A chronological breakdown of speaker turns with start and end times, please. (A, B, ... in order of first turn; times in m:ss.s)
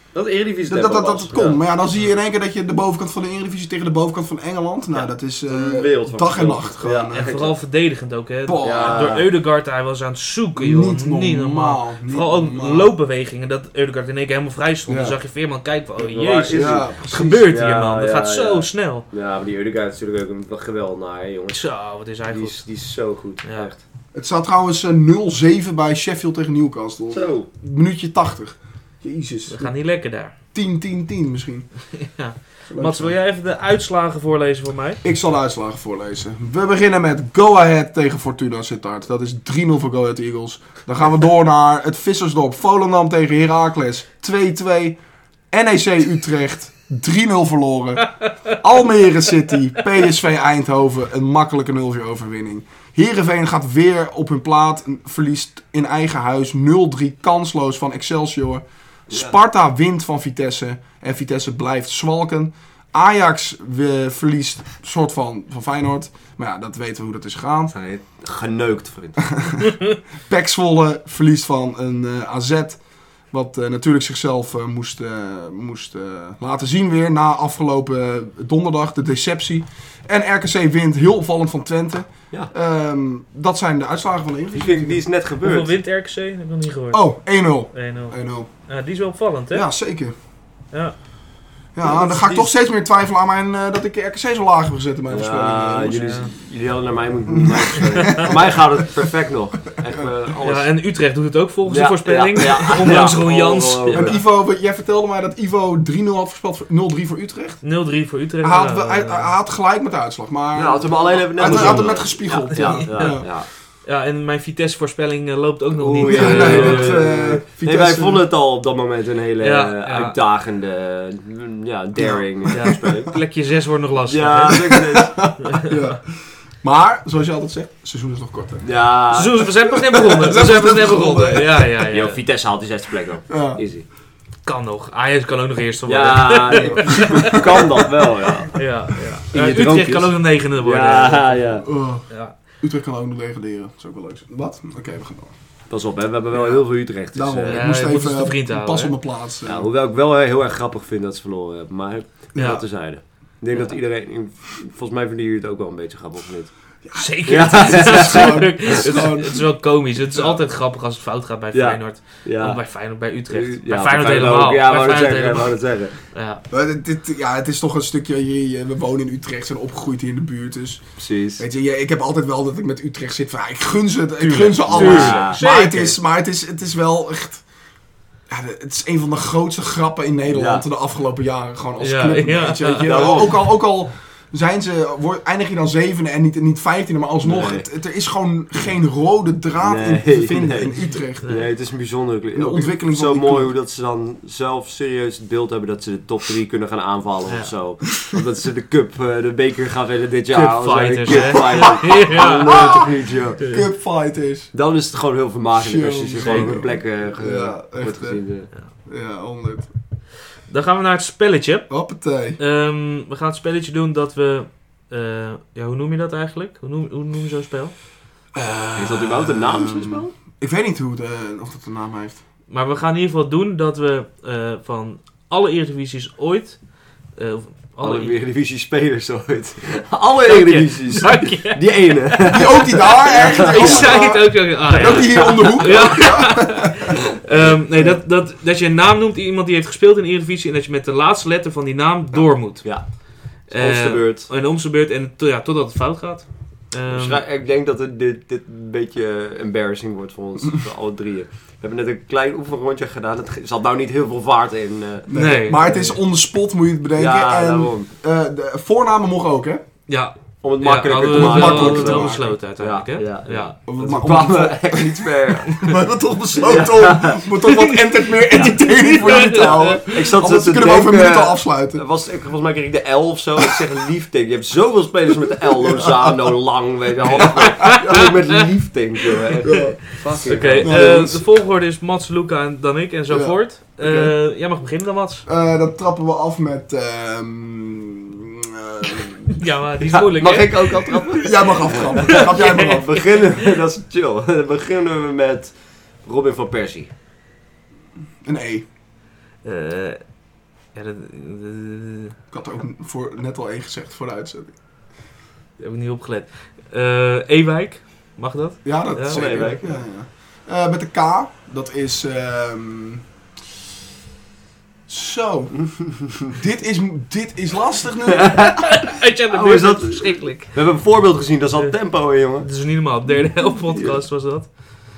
0:00.1-0:01.6 A
0:00.7-0:07.3 B
0:04.9-0:07.6 A
0:07.1-0:19.1 C
0:08.4-0:09.1 B
0:08.6-0:09.3 A
0:10.6-0:12.9 B
0:14.9-0:15.2 B
0:16.0-0:16.9 A
0:16.5-0:17.4 B
0:17.4-0:21.7 A
0:21.5-0:22.7 C
0:22.2-0:23.8 A
0:23.4-0:23.7 C
0:24.1-0:29.7 B
0:27.1-0:27.5 A
0:29.5-0:30.3 C
0:30.5-0:31.7 B
0:31.9-0:35.0 C
0:32.7-0:33.1 B
0:35.0-0:45.0 B
0:45.5-1:07.7 B
0:48.2-0:48.5 C
1:07.7-1:09.5 A
1:09.2-1:09.7 B
1:10.3-1:12.8 B
1:13.3-1:25.0 B
1:24.5-1:25.7 A
1:25.4-1:27.1 C
1:26.9-1:28.5 B
1:27.7-1:29.7 C
1:29.5-1:30.1 B
1:31.7-1:36.3 B
1:31.8-1:32.5 A
1:35.1-1:40.7 A
1:36.0-1:36.3 C
1:37.3-1:38.9 B
1:40.4-1:44.2 C
1:41.7-1:44.2 A
1:43.9-1:47.6 B
1:47.6-1:49.3 C
1:48.4-1:53.3 B
1:50.5-1:53.5 A
1:51.4-1:57.0 C
1:55.8-2:03.2 A
1:56.0-1:58.2 B
1:59.4-2:00.2 C
2:02.0-2:02.8 B
2:02.5-2:04.7 C
2:04.1-2:05.3 A
2:04.5-2:11.8 B
2:05.4-2:06.0 C
2:08.6-2:09.6 A
2:09.1-2:12.2 C
2:11.9-2:13.8 A
2:13.3-2:13.6 B
2:14.4-2:17.7 C
2:15.9-2:18.7 A
2:16.8-2:17.7 B
2:18.5-2:22.3 C
2:19.3-2:21.6 A
2:21.6-2:22.1 B
2:22.6-2:25.3 B
2:25.7-2:27.7 A
2:26.3-2:29.7 B
2:27.4-2:29.0 C
2:29.4-2:39.1 A
2:32.3-2:32.6 B
2:32.4-2:32.6 C
2:33.5-2:33.8 C
2:36.8-2:39.4 B
2:36.9-2:46.4 C
2:41.5-2:42.6 A
2:43.3-2:46.0 A
2:46.5-2:50.8 B
2:51.0-2:51.4 A
2:51.4-2:57.4 B
2:54.2-2:55.9 C
2:54.7-2:55.8 A
2:58.3-3:11.2 B
3:00.3-3:00.6 A
3:01.8-3:03.2 C
3:02.8-3:03.5 A
3:07.2-3:07.6 A
3:09.6-3:23.4 A
3:11.2-3:11.5 C
3:12.3-3:13.5 B
3:20.3-3:22.8 C
3:21.1-3:24.5 B
3:24.5-3:28.5 A
3:25.6-3:28.2 B
3:28.8-3:29.7 B
3:30.5-3:31.7 C
3:31.7-3:32.4 B
3:32.4-3:37.7 C
3:38.3-3:42.2 B
3:38.8-3:40.1 A
3:42.5-3:48.1 C
3:47.8-3:54.0 A
3:50.2-3:52.4 C
3:52.3-3:57.0 B
3:53.1-4:07.2 C
3:54.8-3:56.0 A
3:57.7-3:58.0 B
4:02.6-4:04.3 A
4:06.9-4:15.6 A
4:15.1-4:19.6 B
4:15.1-4:16.0 C
4:17.0-4:17.9 A
4:19.9-4:23.5 C
4:20.4-4:25.7 A
4:21.1-4:22.4 B
4:23.7-4:31.8 B
4:26.3-4:27.2 A
4:27.5-4:29.8 C
4:28.4-4:41.0 A
4:35.5-4:36.1 B
4:37.1-4:38.4 C
4:37.2-4:37.8 B
4:39.4-4:41.2 B
4:39.9-4:45.2 C
4:43.1-4:44.1 B
4:45.2-4:49.4 B
4:49.4-4:51.1 C
4:49.8-4:56.9 A
4:51.2-4:53.0 B
4:52.1-4:53.2 C
4:58.2-4:58.6 B
4:59.4-5:00.1 C
5:00.7-5:02.1 C
5:02.3-5:04.5 B
5:05.6-5:09.6 C
5:08.6-5:13.0 B
5:09.1-5:09.8 A
5:14.9-5:18.5 B
5:15.5-5:16.4 A
5:18.1-5:22.5 A
5:18.4-5:20.6 C
5:22.4-5:24.5 C
5:23.7-5:24.0 A